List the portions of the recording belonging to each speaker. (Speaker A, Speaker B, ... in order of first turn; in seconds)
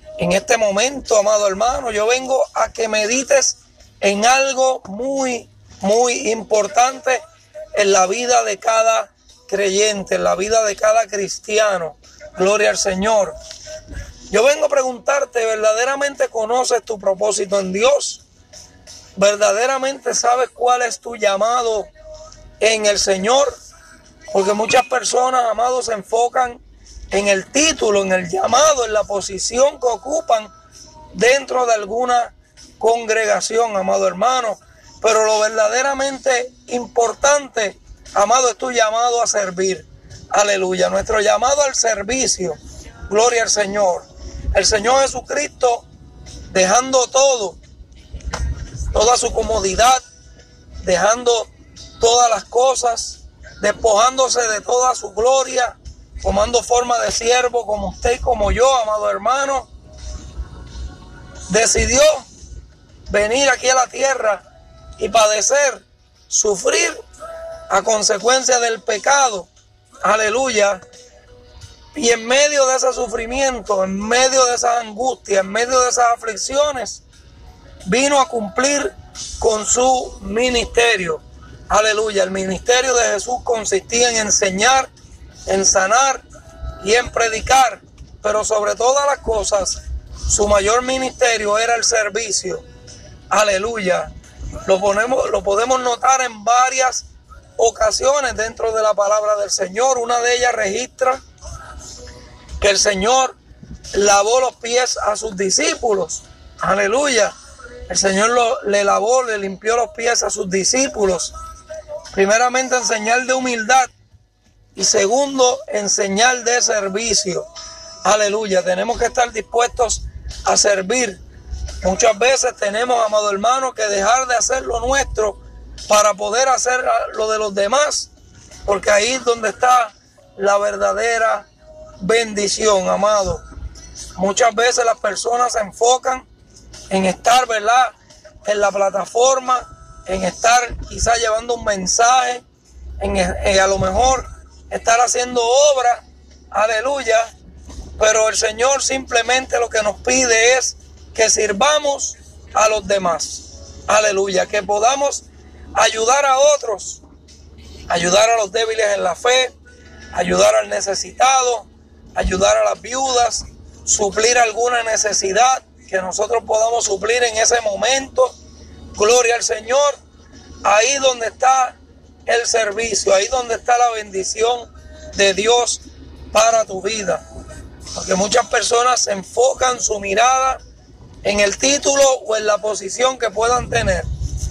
Speaker A: 0.2-7.2, 7.7-13.3, 14.3-18.2, 19.1-21.9, 22.6-23.5, 24.3-30.5, 31.1-45.8, 46.5-47.6, 48.9-50.0, 50.8-59.7, 61.5-62.2, 63.1-64.4, 65.0-67.0, 67.7-69.5, 70.0-70.8, 71.9-77.0, 77.8-84.9, 85.5-86.2, 86.8-92.6, 93.3-94.1, 94.6-101.2, 102.6-103.4, 103.9-107.3, 107.9-111.3, 112.1-113.9, 114.7-117.5, 118.0-121.2, 121.8-128.1, 128.6-131.5, 132.0-133.4, 134.1-136.3, 136.9-142.4, 143.0-147.3, 148.0-157.0, 157.9-159.5, 160.1-168.3, 168.9-170.0, 170.6-177.2, 177.9-180.6, 181.2-184.1